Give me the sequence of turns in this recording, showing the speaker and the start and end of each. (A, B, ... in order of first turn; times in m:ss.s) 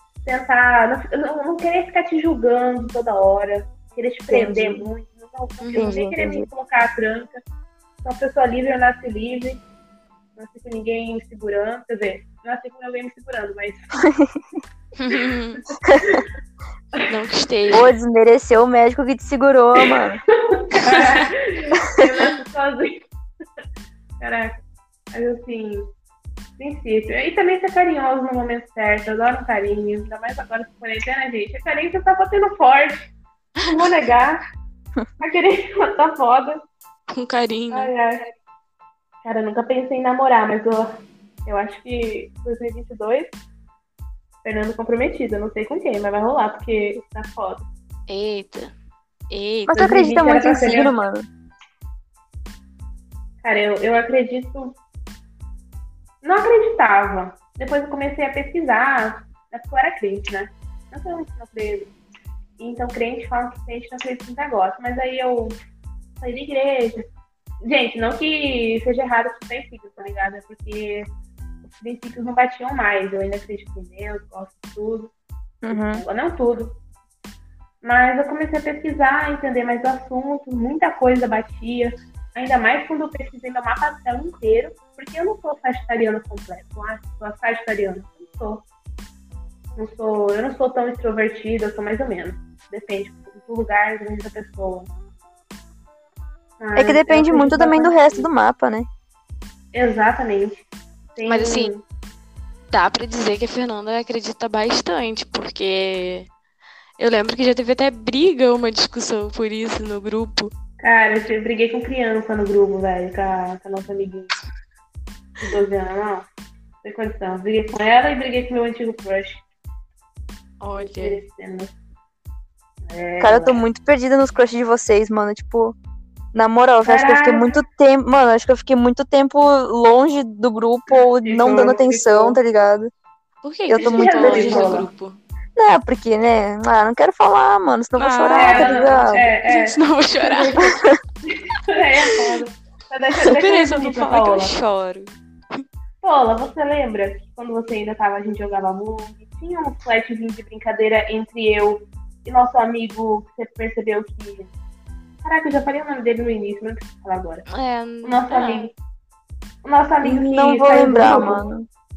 0:00.2-0:07.4 A
0:04.3-0:04.9 B
0:05.6-0:06.0 C
0:05.7-0:06.5 B
0:08.0-0:09.6 A
0:10.4-0:14.0 A
0:14.0-0:14.4 B
0:15.0-0:15.6 C
0:15.8-0:16.2 B
0:16.0-0:16.2 A
0:17.1-0:17.9 C
0:17.7-0:20.2 B
0:19.8-0:23.0 A
0:20.9-0:21.2 C
0:24.2-0:24.6 A
0:25.1-0:25.9 A
0:26.6-0:33.1 A
0:33.6-0:34.4 A
0:35.2-0:36.6 A
0:37.1-0:37.9 C
0:37.7-0:38.2 A
0:39.2-0:43.3 A
0:44.4-0:47.6 A
0:48.1-0:48.7 C
0:49.3-0:49.9 C
0:49.7-0:51.2 B
0:49.7-0:50.9 A
0:53.4-0:54.8 A
0:56.2-1:01.9 A
1:02.6-1:05.6 A
1:06.2-1:07.0 A
1:07.6-1:11.1 A
1:11.6-1:15.1 A
1:15.6-1:16.0 B
1:15.7-1:16.7 A
1:17.8-1:28.6 A
1:29.8-1:34.9 A
1:36.6-1:38.3 A
1:36.8-1:38.9 B
1:39.7-1:40.6 A
1:41.1-1:41.8 A
1:41.2-1:41.7 C
1:42.7-1:46.3 C
1:47.0-1:50.5 C
1:50.8-1:54.4 A
1:55.4-1:56.2 A
1:56.8-1:59.4 A
2:00.6-2:01.2 C
2:00.8-2:01.7 A
2:02.9-2:03.6 A
2:03.2-2:05.7 B
2:06.3-2:12.9 B
2:06.8-2:07.6 A
2:10.9-2:12.4 A
2:13.4-2:15.2 C
2:13.7-2:14.8 B
2:13.8-2:14.9 A
2:15.6-2:19.2 B
2:18.0-2:20.7 C
2:18.3-2:24.5 A
2:23.2-2:25.6 C
2:26.0-2:34.5 A
2:35.2-2:37.4 A
2:37.5-2:38.7 C
2:38.0-2:38.7 A
2:39.6-2:41.4 A
2:40.0-2:41.7 B